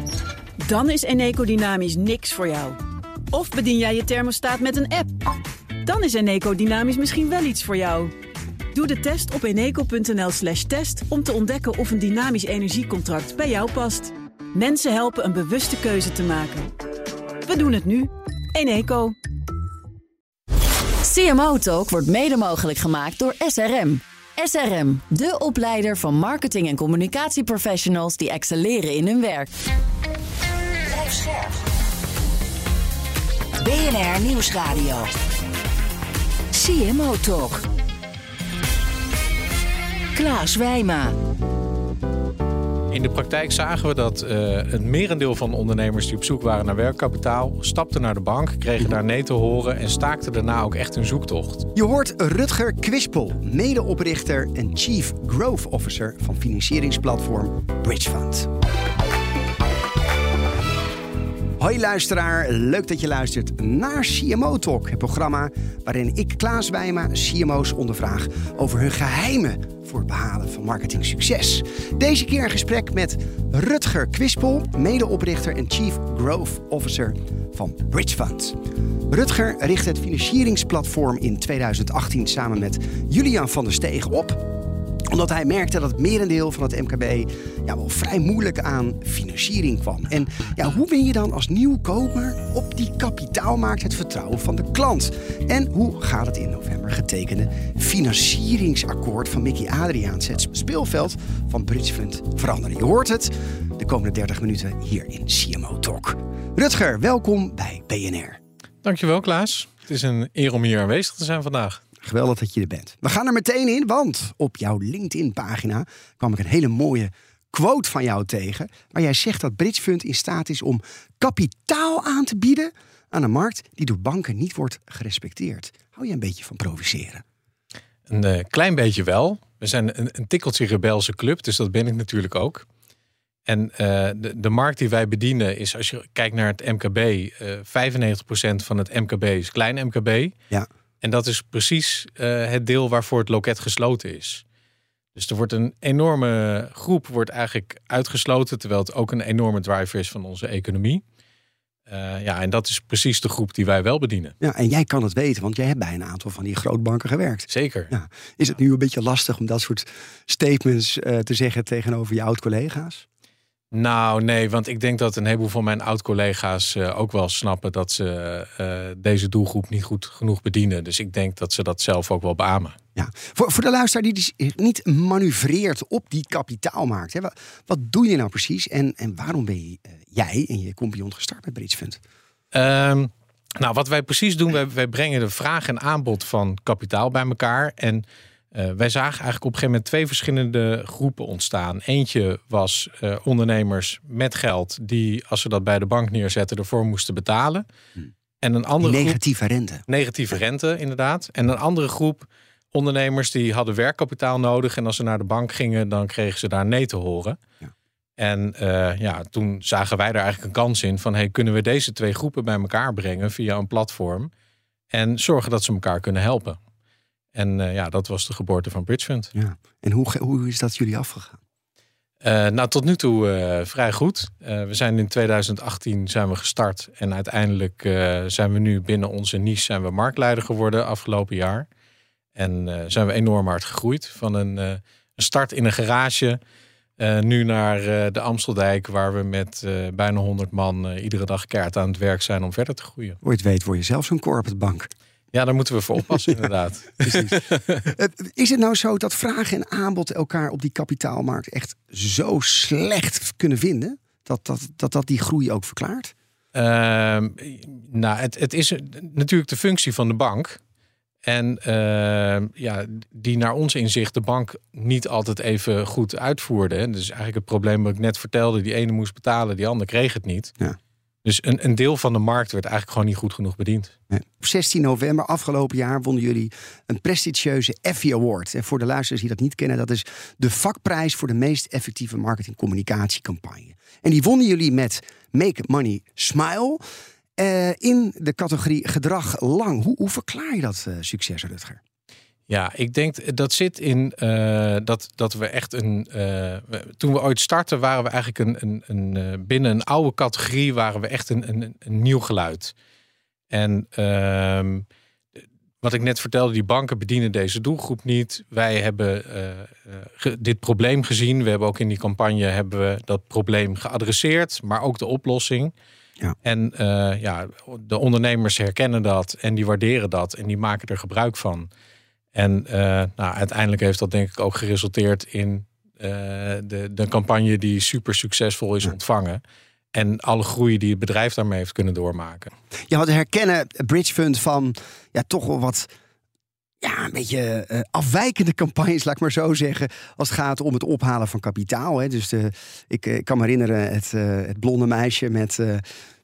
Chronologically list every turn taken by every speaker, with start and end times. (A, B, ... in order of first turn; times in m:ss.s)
0:00.6-0:02.8 A
0:03.3-0:05.2 A
0:05.8-0:08.1 A
0:08.7-0:16.7 A
0:17.4-0:19.1 A
0:21.0-0:29.5 B
0:30.9-0:31.5 C
0:33.6-0:35.1 C
0:36.5-0:37.6 C
0:40.1-0:41.1 C
0:42.9-0:51.7 D
0:51.7-0:58.5 E
1:01.6-1:24.5 E
1:25.1-1:48.4 E
1:48.8-1:51.8 D
1:52.0-2:07.2 E
2:08.1-2:12.6 D
2:13.4-2:20.3 D
2:21.0-2:24.4 D
2:25.1-2:31.0 D
2:31.9-2:34.4 D
2:34.4-2:43.0 E
2:37.5-2:37.9 D
2:43.7-2:52.8 D
2:53.0-3:02.0 E
3:02.5-3:17.6 D
3:18.4-3:19.2 D
3:18.8-3:19.8 E
3:19.9-3:27.4 D
3:28.2-3:34.3 D
3:34.9-3:36.6 D
3:37.3-3:39.3 D
3:39.3-3:41.4 E
3:42.2-3:51.7 D
3:52.4-3:56.4 D
3:57.0-4:03.2 D
4:03.2-4:04.9 E
4:05.3-4:07.9 D
4:07.0-4:16.1 E
4:16.5-4:20.6 D
4:21.2-4:30.5 D
4:31.2-4:33.9 D
4:34.1-4:46.8 E
4:47.4-4:51.8 E
4:52.5-5:02.7 D
5:03.5-5:04.8 D
5:05.8-5:15.7 D
5:16.4-5:21.7 D
5:22.3-5:29.4 D
5:29.9-5:32.5 D
5:32.9-5:35.9 E
5:36.8-5:45.8 E